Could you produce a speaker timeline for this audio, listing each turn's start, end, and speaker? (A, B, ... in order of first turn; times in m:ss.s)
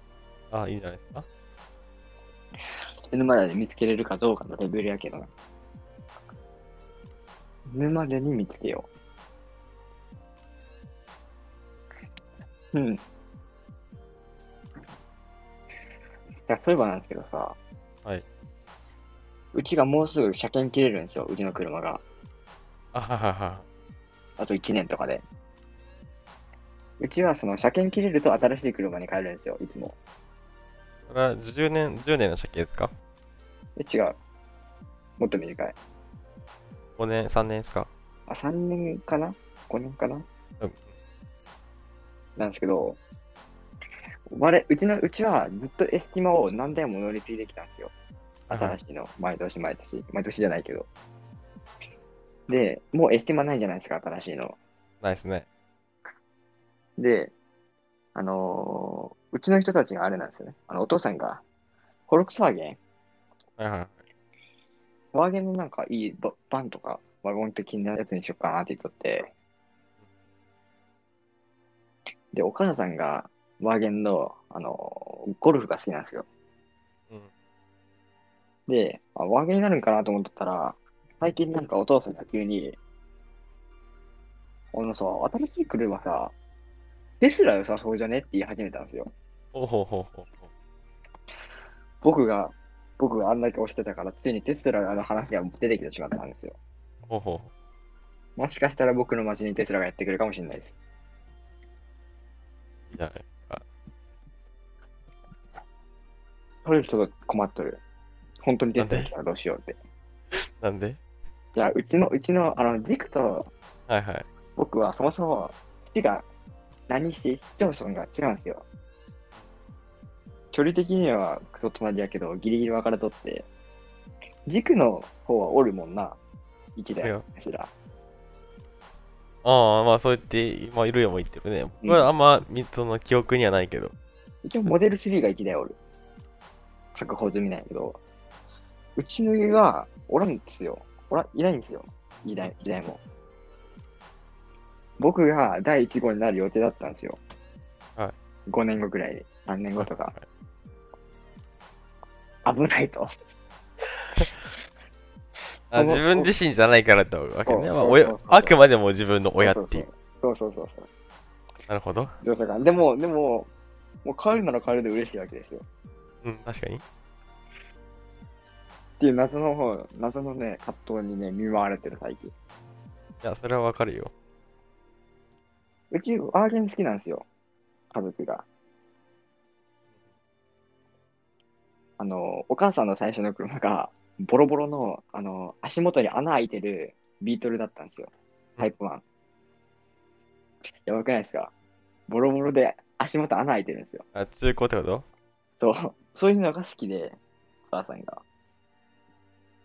0:00.5-0:01.3 A
0:03.1-0:05.3 B
0:07.7-0:08.9 B
0:12.7-0:13.0 B
0:16.5-0:17.6 B
0:19.5-0:22.0 B
0:22.9-0:23.6 A
0:24.4-0:25.2 B
0:27.0-0:30.0 B
0:31.1-0:32.9 A
0:33.8-0:34.2 B
0:35.2-0:35.8 B
0:37.0-0:37.9 A
0:38.3-0:40.2 B
0:42.4-0:43.0 B
0:44.3-0:47.9 B
0:48.5-0:48.8 A
0:48.5-0:50.9 B
0:52.5-0:54.6 B
0:55.0-0:55.5 A
0:57.0-0:57.3 B
0:58.2-1:01.4 B
1:02.1-1:02.8 B
1:03.6-1:04.0 A
1:05.1-1:09.3 B
1:12.3-1:16.3 B
1:18.7-1:22.8 B
1:24.7-1:26.3 B
1:27.2-1:29.1 B
1:29.5-1:30.5 A
1:32.0-1:36.6 B
1:37.1-1:37.5 A
1:38.4-1:40.8 B
1:42.9-1:43.6 A
1:46.6-1:47.8 B
1:48.4-1:49.8 B
1:48.8-1:49.1 A
1:50.3-1:51.0 A
1:51.6-1:53.5 B
1:53.9-1:54.3 A
1:54.6-1:56.3 B
1:56.9-1:58.6 B
2:00.5-2:03.5 B
2:04.5-2:06.2 B
2:06.8-2:07.7 B
2:09.4-2:13.9 A
2:11.8-2:12.1 B
2:14.4-2:15.8 B
2:16.9-2:18.0 B
2:19.0-2:23.0 B
2:25.0-2:27.2 B
2:28.5-2:30.2 B
2:29.8-2:30.2 A
2:32.4-2:33.1 B
2:35.7-2:39.9 A
2:35.7-2:36.3 B
2:37.5-2:38.6 B
2:39.4-2:40.9 B
2:41.7-2:42.1 A
2:42.2-2:43.5 B
2:44.0-2:45.6 B
2:46.2-2:46.8 A
2:49.0-2:52.3 B
2:53.2-2:54.1 A
2:55.9-2:57.3 B
2:57.9-2:58.5 B
3:02.0-3:09.0 B
3:10.9-3:11.5 B
3:12.1-3:14.1 B
3:14.1-3:15.0 A
3:15.6-3:18.2 B